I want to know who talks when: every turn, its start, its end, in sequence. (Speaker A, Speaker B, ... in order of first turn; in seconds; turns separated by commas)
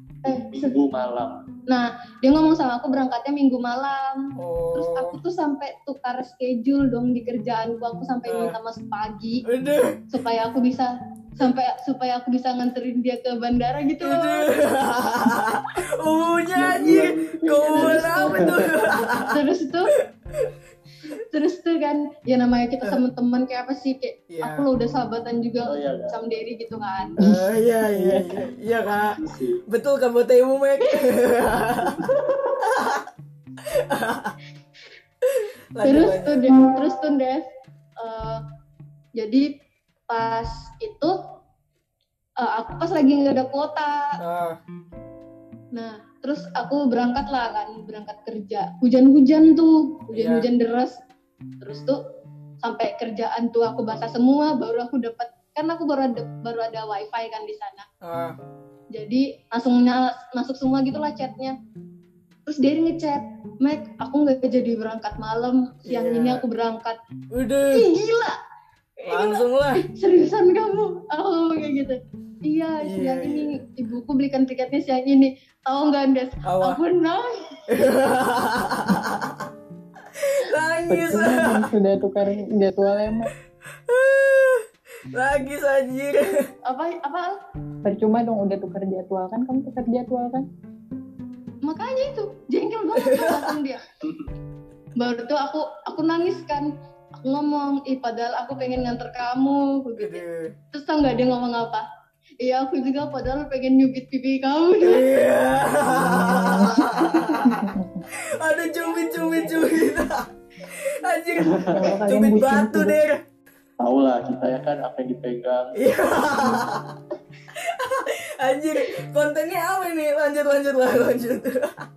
Speaker A: 0.2-1.4, Speaker B: 0.2-0.8, Speaker B: 1.7-4.2, Speaker C: 4.4-5.2, Speaker B: 4.8-9.4, Speaker C: 8.3-8.6, Speaker C: 9.5-10.0, Speaker B: 10.1-14.5, Speaker C: 14.0-19.4, Speaker A: 16.5-18.7, Speaker B: 17.7-19.9, Speaker C: 19.9-20.5, Speaker B: 21.3-27.2, Speaker C: 24.3-24.7, Speaker A: 25.7-26.2, Speaker C: 27.2-33.1, Speaker D: 27.9-28.4, Speaker A: 29.2-29.6, Speaker A: 32.1-32.5, Speaker C: 33.7-34.4, Speaker C: 35.3-36.5, Speaker B: 35.8-37.5, Speaker B: 38.0-38.4, Speaker B: 39.2-39.5, Speaker B: 40.1-41.2, Speaker B: 42.4-44.1, Speaker C: 44.2-44.6, Speaker B: 45.7-50.9, Speaker C: 50.1-50.5, Speaker B: 51.6-52.0, Speaker B: 52.6-57.9, Speaker C: 58.0-58.4, Speaker B: 58.9-61.5, Speaker B: 62.5-67.0, Speaker C: 65.9-66.4, Speaker C: 67.3-67.9, Speaker B: 67.7-68.3, Speaker B: 69.0-77.6, Speaker C: 69.1-69.8, Speaker C: 72.8-73.5, Speaker C: 76.5-76.8, Speaker C: 77.7-79.5, Speaker C: 80.1-81.7, Speaker D: 80.9-83.3, Speaker C: 83.9-86.5, Speaker B: 86.7-87.3, Speaker D: 87.8-90.5, Speaker B: 91.6-93.8, Speaker C: 93.0-93.5, Speaker B: 95.0-101.8, Speaker C: 100.0-100.5, Speaker B: 102.4-105.1, Speaker C: 104.8-113.2, Speaker D: 106.1-107.9, Speaker B: 108.7-109.8, Speaker A: 111.4-111.7, Speaker D: 111.7-113.0, Speaker A: 113.8-115.8, Speaker C: 115.8-117.0, Speaker C: 117.5-121.8